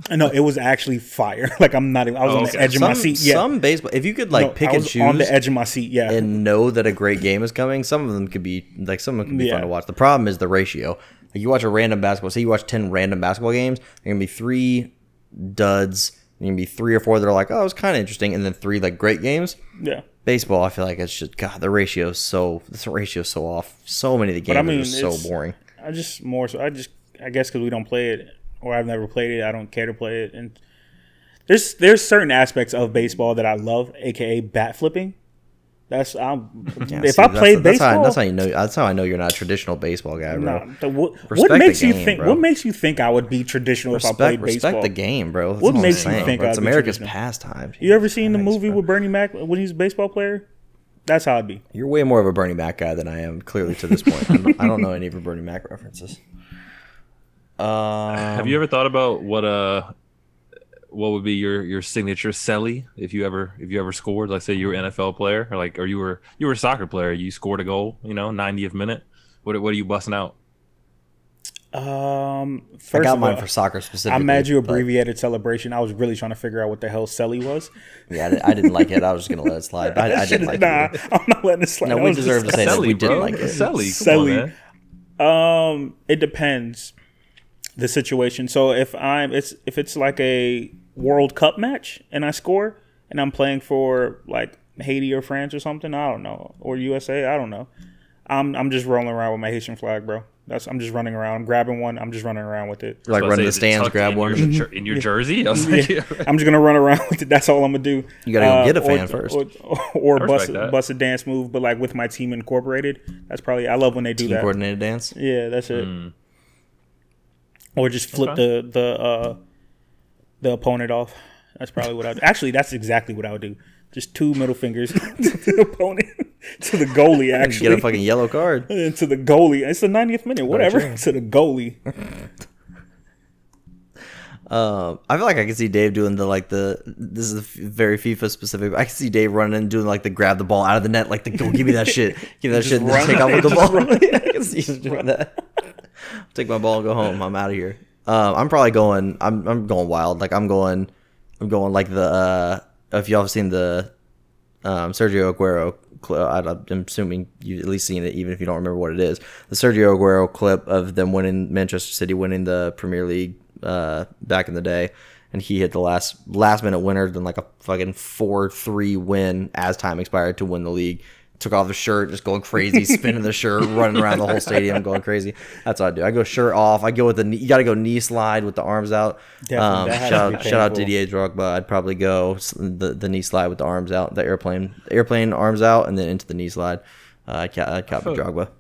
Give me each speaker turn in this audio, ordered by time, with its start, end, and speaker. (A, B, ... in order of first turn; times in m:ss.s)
0:00.1-0:03.5 A
0:02.2-0:02.7 B
0:02.6-0:05.3 C
0:04.3-0:06.3 A
0:06.1-0:19.6 C
0:09.2-0:09.7 A
0:19.8-0:20.0 A
0:20.2-0:25.6 C
0:24.5-0:30.6 A
0:31.5-0:35.2 A
0:35.9-0:38.2 A
0:36.9-0:40.7 C
0:40.3-0:44.9 A
0:41.3-0:42.4 C
0:43.9-0:48.8 C
0:45.6-0:47.1 A
0:45.7-0:46.3 B
0:47.8-0:50.5 A
0:51.1-0:51.6 A
0:51.7-0:56.2 C
0:57.6-0:58.6 C
0:58.1-0:59.9 B
1:00.9-1:10.4 B
1:11.7-1:13.5 A
1:12.9-1:14.9 C
1:14.1-1:17.7 A
1:18.1-1:21.0 C
1:18.3-1:19.0 A
1:19.8-1:24.5 A
1:21.8-1:23.7 C
1:22.4-1:24.5 B
1:25.2-1:26.9 A
1:27.8-1:37.7 A
1:38.3-1:43.0 A
1:43.1-1:44.5 C
1:43.1-1:46.3 B
1:44.4-1:54.5 A
1:48.2-1:49.4 C
1:50.2-1:50.8 B
1:54.2-1:55.1 C
1:55.1-1:55.9 A
1:55.7-1:56.1 B
1:57.8-1:59.4 A
1:58.1-1:58.4 B
2:00.4-2:08.0 A
2:07.3-2:08.7 C
2:08.7-2:11.8 A
2:10.5-2:11.0 C
2:14.5-2:25.4 C
2:21.6-2:21.9 A
2:22.5-2:24.4 A
2:26.3-2:33.9 C
2:34.6-3:08.5 C
2:59.4-3:00.9 A
3:00.1-3:00.5 B
3:07.9-3:08.2 B